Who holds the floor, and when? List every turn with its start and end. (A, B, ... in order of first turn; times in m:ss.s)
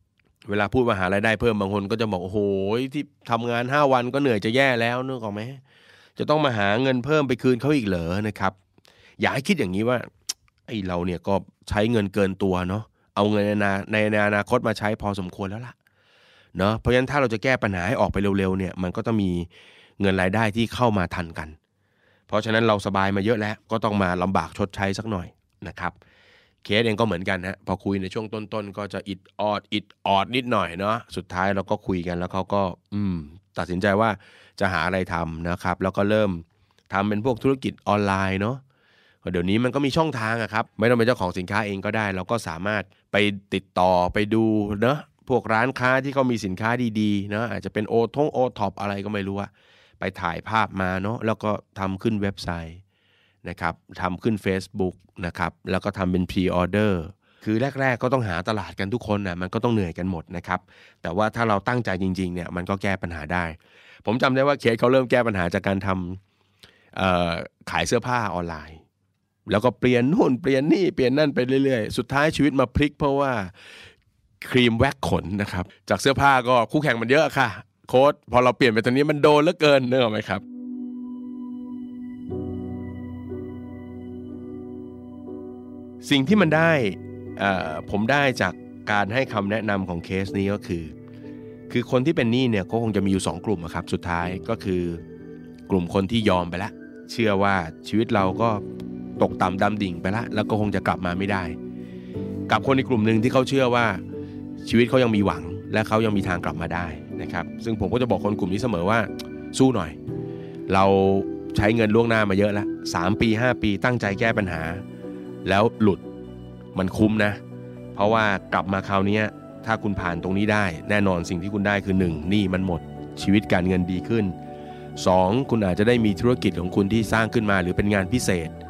0:00.4-0:05.6 A
0:06.2-0:08.5 A
0:09.2-0:10.1 A
0:10.7-0:15.7 A
0:16.5-0:19.5 A
0:20.0-0:21.6 A
0:22.3-0:25.9 A
0:26.6-0:38.6 A
0:39.2-0:52.8 A
0:53.4-1:06.2 A
1:06.9-1:08.8 A
1:09.5-1:13.5 A
1:14.4-1:20.4 A
1:26.0-1:30.9 A
1:31.7-1:35.0 A
1:35.7-1:38.6 A
1:39.2-1:41.6 A
1:42.5-1:44.0 A
1:44.6-1:50.0 A
1:50.7-1:54.8 A
1:55.4-1:56.0 A
1:56.7-1:57.4 A
1:57.9-2:04.3 A
2:05.0-2:08.5 A